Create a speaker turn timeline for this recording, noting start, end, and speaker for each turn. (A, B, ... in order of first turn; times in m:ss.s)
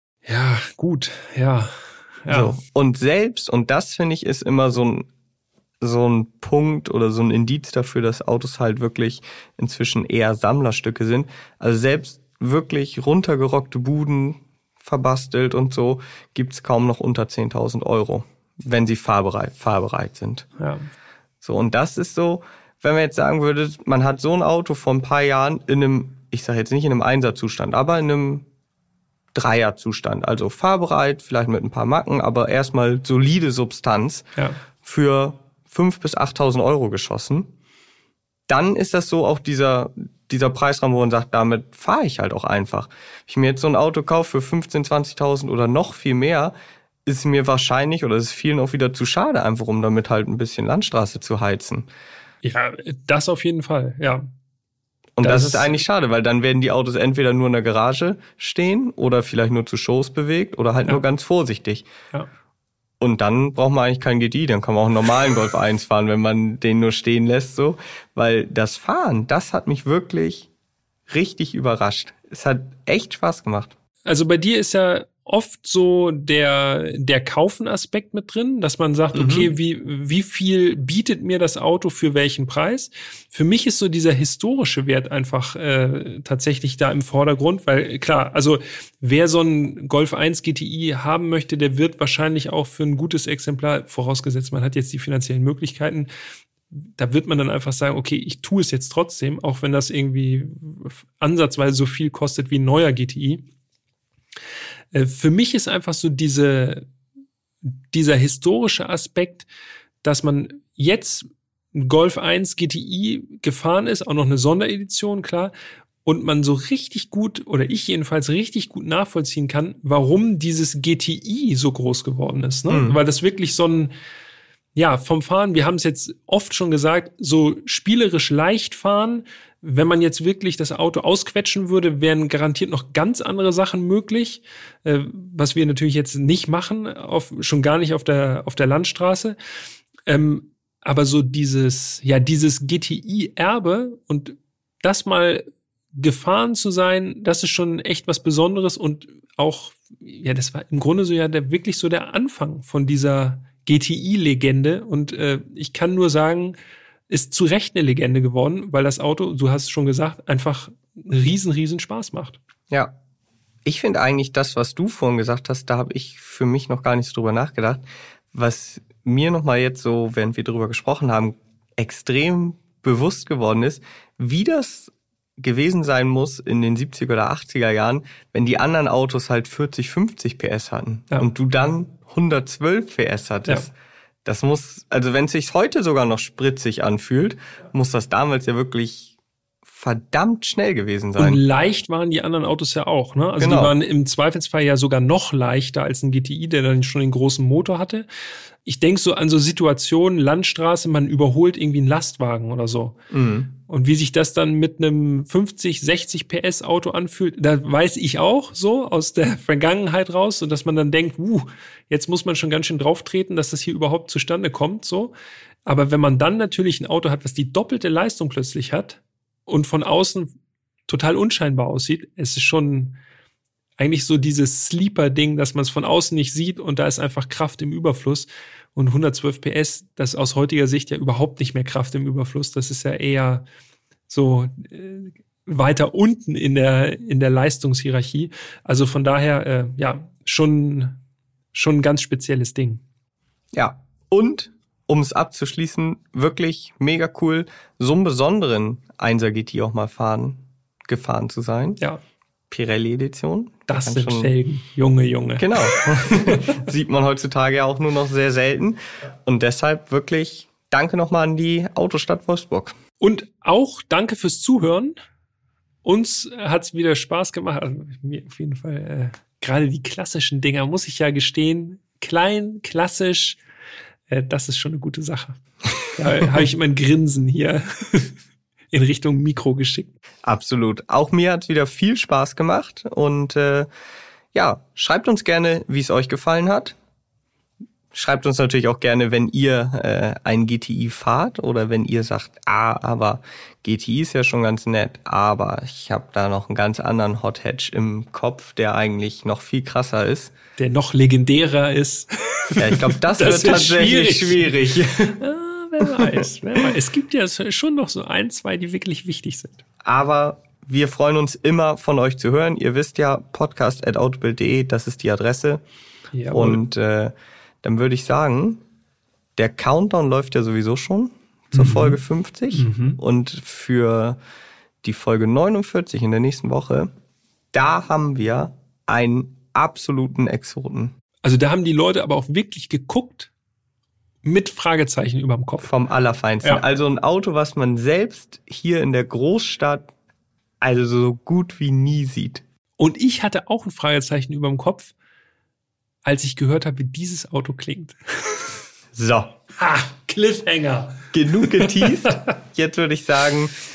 0:00.2-0:02.6 A
0:02.3-0:05.1 B
0:05.8-0:20.5 B
0:20.6-0:20.9 A
0:21.4-0:28.4 B
0:29.3-0:34.3 B
0:34.8-0:37.5 B
0:38.5-0:46.5 B
0:47.0-0:51.9 B
0:52.4-0:54.3 A
0:55.2-1:01.9 B
0:55.2-0:55.8 A
1:03.0-1:10.5 B
1:11.1-1:13.7 B
1:14.0-1:36.1 A
1:19.1-1:19.5 B
1:36.7-1:43.4 A
1:44.9-1:46.9 A
1:47.9-1:49.5 A
1:50.0-1:55.5 A
1:56.0-2:03.9 A
2:02.7-2:03.0 B
2:04.7-2:19.4 A
2:20.1-2:36.6 A
2:37.1-2:42.4 A
2:43.6-3:03.7 B
3:04.2-3:09.1 B
3:09.6-3:11.4 B
3:11.2-3:18.0 A
3:13.4-3:13.7 B
3:18.6-3:23.0 A
3:23.1-3:23.5 B
3:23.6-3:35.1 A
3:35.6-3:40.3 A
3:40.9-3:43.0 A
3:43.8-3:53.4 A
3:54.1-4:01.0 A
4:01.5-4:02.8 A
4:03.5-4:11.8 B
4:12.5-4:14.3 B
4:13.7-4:16.6 A
4:15.4-4:22.7 B
4:23.0-4:24.9 A
4:25.8-4:33.4 A
4:34.1-4:35.4 A
4:35.9-4:38.1 A
4:38.7-4:40.0 A
4:40.2-4:43.7 B
4:44.3-4:46.8 B
4:47.9-5:00.3 B
5:00.6-5:04.5 A
5:02.6-5:05.2 B
5:05.0-5:09.6 A
5:05.8-5:06.2 B
5:09.8-5:15.6 B
5:16.1-5:16.6 A
5:16.3-5:18.6 B
5:19.4-5:24.2 B
5:21.5-5:22.0 A
5:22.5-5:23.0 A
5:24.8-5:26.9 B
5:27.5-5:30.9 B
5:31.2-5:33.3 A
5:34.2-5:35.7 A
5:35.6-5:39.9 B
5:40.6-5:42.4 B
5:42.8-5:44.9 A
5:46.0-5:48.5 A
5:48.9-5:49.4 B
5:49.6-5:52.3 A
5:51.1-5:53.5 B